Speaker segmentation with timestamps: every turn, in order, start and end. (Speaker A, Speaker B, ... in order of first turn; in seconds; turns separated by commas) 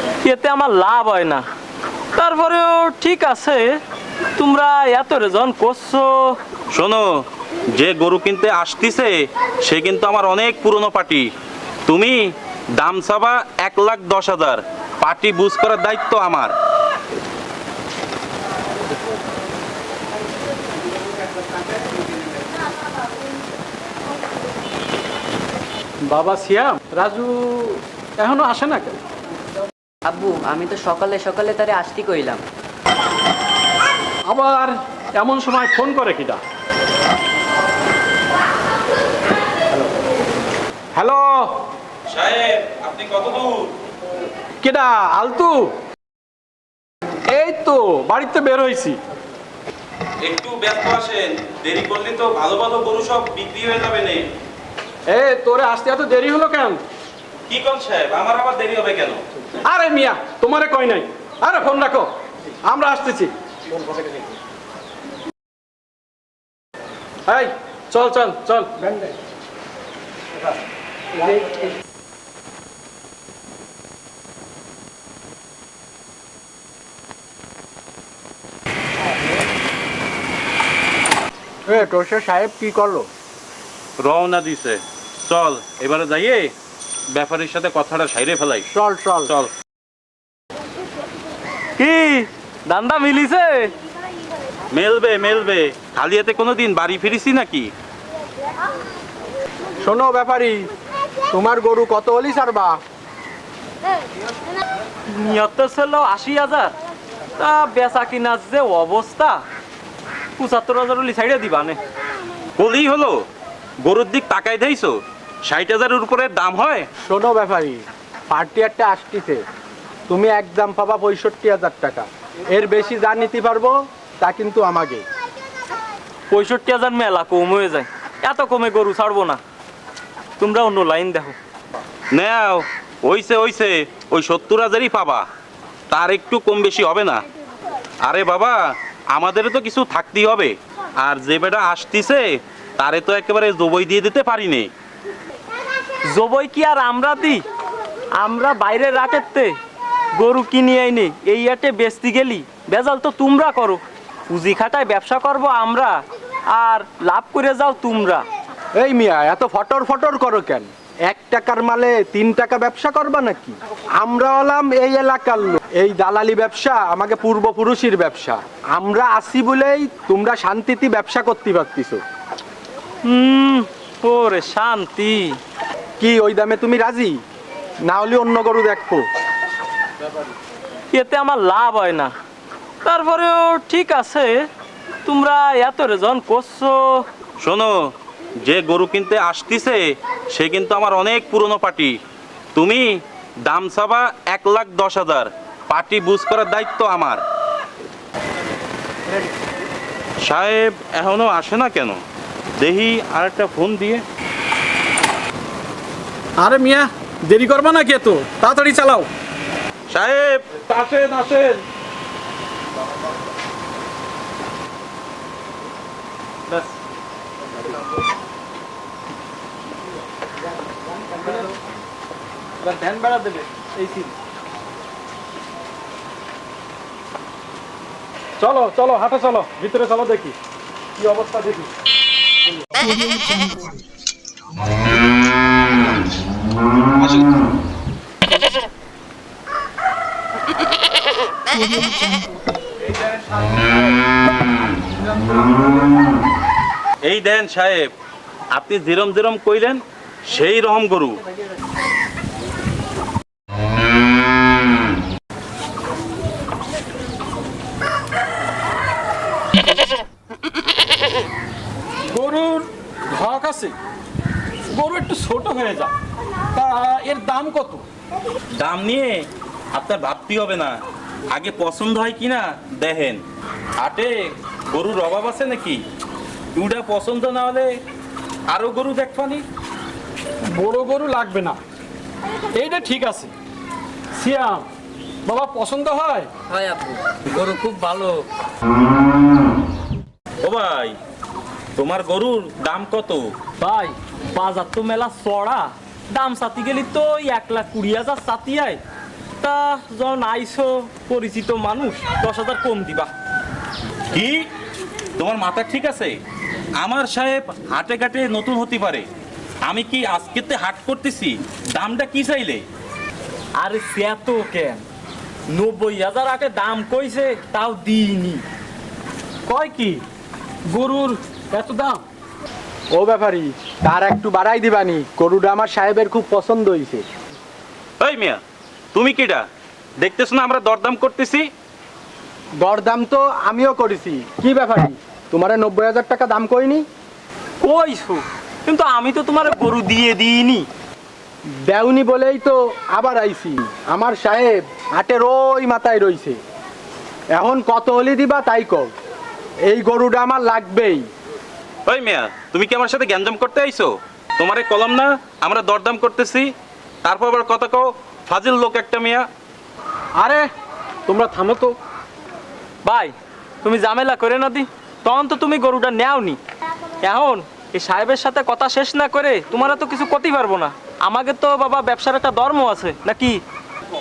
Speaker A: 0.2-1.4, Speaker A: 2.2-3.8, Speaker A: 4.4-6.4, Speaker B: 6.7-7.0, Speaker B: 7.7-9.1, Speaker B: 9.6-11.3, Speaker B: 11.9-16.5, Speaker C: 26.1-29.0, Speaker D: 30.1-32.4, Speaker C: 34.3-36.4, Speaker C: 41.0-41.5, Speaker B: 42.1-43.7, Speaker C: 44.6-45.7, Speaker C: 47.3-49.0, Speaker B: 50.2-54.2, Speaker C: 55.1-56.8, Speaker B: 57.5-59.2, Speaker C: 59.6-62.1, Speaker C: 62.6-63.3, Speaker C: 67.3-68.9, Speaker E: 81.7-83.1, Speaker B: 84.0-86.5, Speaker B: 87.1-88.7, Speaker E: 88.7-89.3, Speaker A: 91.8-93.7, Speaker B: 94.7-97.7, Speaker E: 99.8-100.7, Speaker E: 101.3-102.8, Speaker A: 105.1-106.7, Speaker A: 107.4-109.4, Speaker A: 110.4-111.8, Speaker B: 112.6-113.2, Speaker B: 113.8-116.9, Speaker E: 117.1-119.4, Speaker E: 120.1-125.0, Speaker A: 126.3-129.4, Speaker A: 130.4-131.4, Speaker B: 132.1-135.2, Speaker B: 135.9-137.2, Speaker B: 138.1-138.6, Speaker B: 139.1-142.3, Speaker B: 142.8-144.7, Speaker A: 146.1-147.4, Speaker A: 148.2-149.6, Speaker A: 150.2-156.0, Speaker A: 156.5-158.2, Speaker E: 158.8-172.0, Speaker A: 173.1-175.4, Speaker E: 176.0-177.2, Speaker E: 177.9-179.1, Speaker A: 180.9-182.1, Speaker A: 182.8-184.5, Speaker A: 185.1-187.1, Speaker B: 187.4-192.0, Speaker B: 192.5-197.2, Speaker B: 200.3-202.0, Speaker B: 202.6-204.0, Speaker C: 206.4-209.1, Speaker B: 209.9-210.4, Speaker C: 210.6-211.6, Speaker C: 221.2-221.4, Speaker C: 222.7-224.1, Speaker C: 228.4-230.3, Speaker C: 231.0-231.7, Speaker B: 237.0-237.3, Speaker B: 247.0-247.9, Speaker B: 248.5-251.2, Speaker C: 262.1-263.8, Speaker C: 264.7-265.9, Speaker C: 266.5-267.9, Speaker B: 268.6-270.7, Speaker B: 271.3-273.2, Speaker B: 273.8-275.8, Speaker B: 276.6-277.7, Speaker B: 278.5-279.4, Speaker C: 280.5-281.6, Speaker C: 282.5-283.3, Speaker C: 284.1-284.7, Speaker C: 285.3-286.3, Speaker A: 286.5-288.2, Speaker B: 290.4-291.0, Speaker B: 291.8-293.3, Speaker A: 293.6-298.8, Speaker A: 299.4-303.1, Speaker B: 304.1-304.4, Speaker B: 305.2-306.1, Speaker B: 306.8-309.1, Speaker B: 309.7-312.6, Speaker A: 313.6-314.8, Speaker A: 315.5-318.4, Speaker C: 319.5-320.0, Speaker C: 320.7-322.1, Speaker E: 322.9-327.1, Speaker B: 328.0-328.4, Speaker B: 328.9-329.4, Speaker B: 330.0-331.5, Speaker E: 332.6-336.9, Speaker A: 337.6-340.7, Speaker E: 341.6-346.4, Speaker E: 347.3-348.9, Speaker E: 349.7-351.0, Speaker B: 351.9-356.5, Speaker B: 357.0-359.2, Speaker C: 360.2-360.5, Speaker C: 361.1-361.8, Speaker A: 362.9-366.4, Speaker A: 367.0-373.4